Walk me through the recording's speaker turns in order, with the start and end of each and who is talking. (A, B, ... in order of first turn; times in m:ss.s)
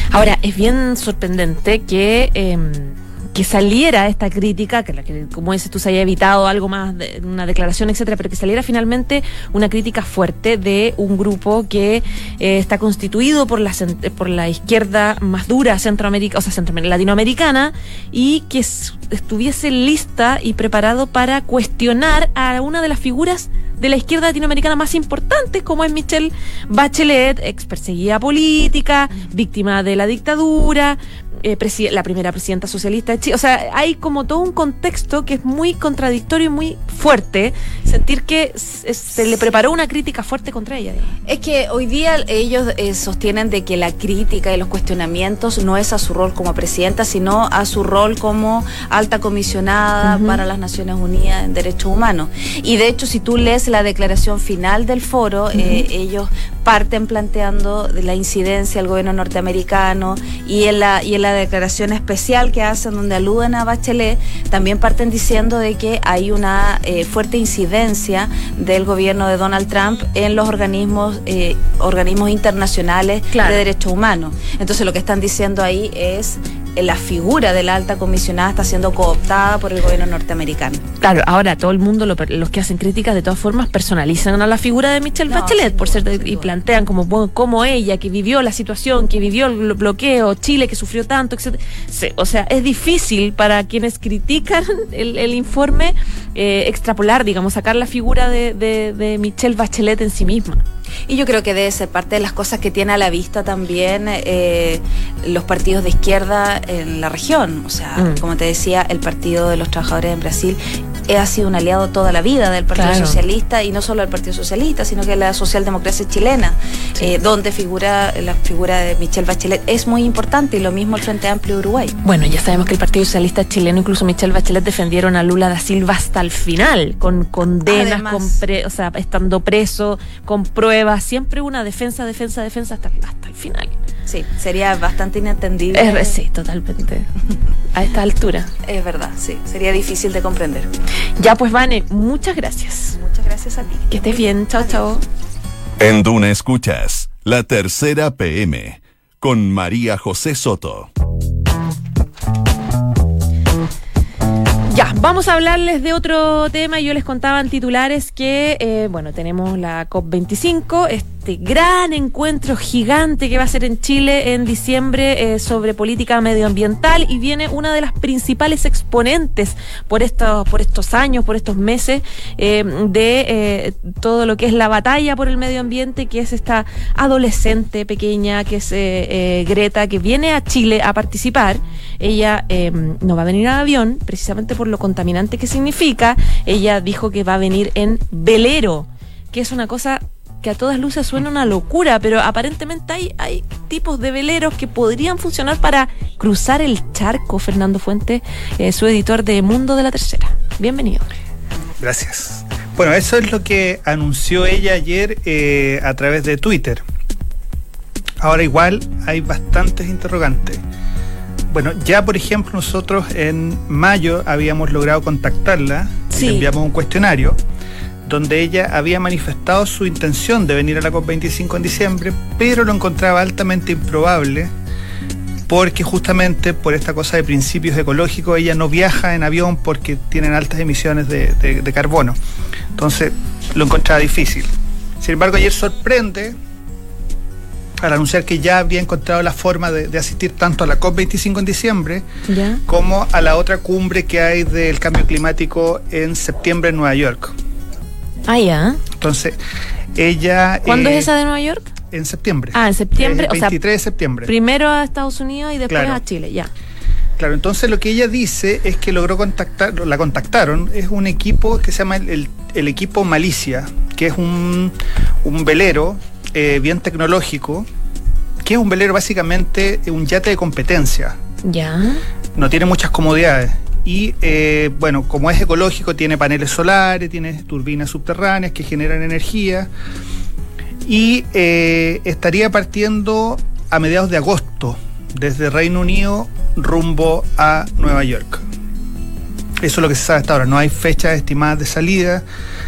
0:00.1-0:41.1 A
0:41.2-1:20.8 B
0:50.0-0:50.4 A
0:55.5-0:55.8 A
1:13.3-1:13.6 A
1:21.0-1:40.6 A
1:25.3-1:26.5 B
1:41.1-2:02.0 B
1:52.7-1:53.2 A
2:02.0-2:13.7 A
2:07.6-2:08.4 B
2:14.1-2:16.2 B
2:15.7-2:17.1 A
2:17.7-2:18.5 A
2:18.6-2:20.7 B
2:21.2-2:23.0 A
2:23.0-2:24.9 B
2:23.9-2:25.0 A
2:25.8-2:30.9 C
2:34.7-3:21.1 A
3:21.8-3:26.8 D
3:28.2-3:30.6 D
3:31.5-3:37.4 D
3:36.2-3:36.4 A
3:38.0-3:44.5 D
3:45.5-3:52.2 D
3:52.8-3:54.5 D
3:55.0-3:56.4 D
3:57.8-4:02.0 D
4:02.3-4:02.6 A
4:02.7-4:07.3 D
4:08.3-4:08.8 A
4:08.9-4:09.4 D
4:10.0-4:11.1 D
4:10.6-4:11.7 A
4:11.9-4:14.3 D
4:12.5-4:13.6 A
4:14.2-4:16.5 A
4:15.7-4:16.0 D
4:17.2-4:27.6 D
4:28.4-4:31.2 D
4:31.4-4:32.0 A
4:32.4-4:39.7 D
4:40.8-4:48.4 D
4:49.6-4:52.2 D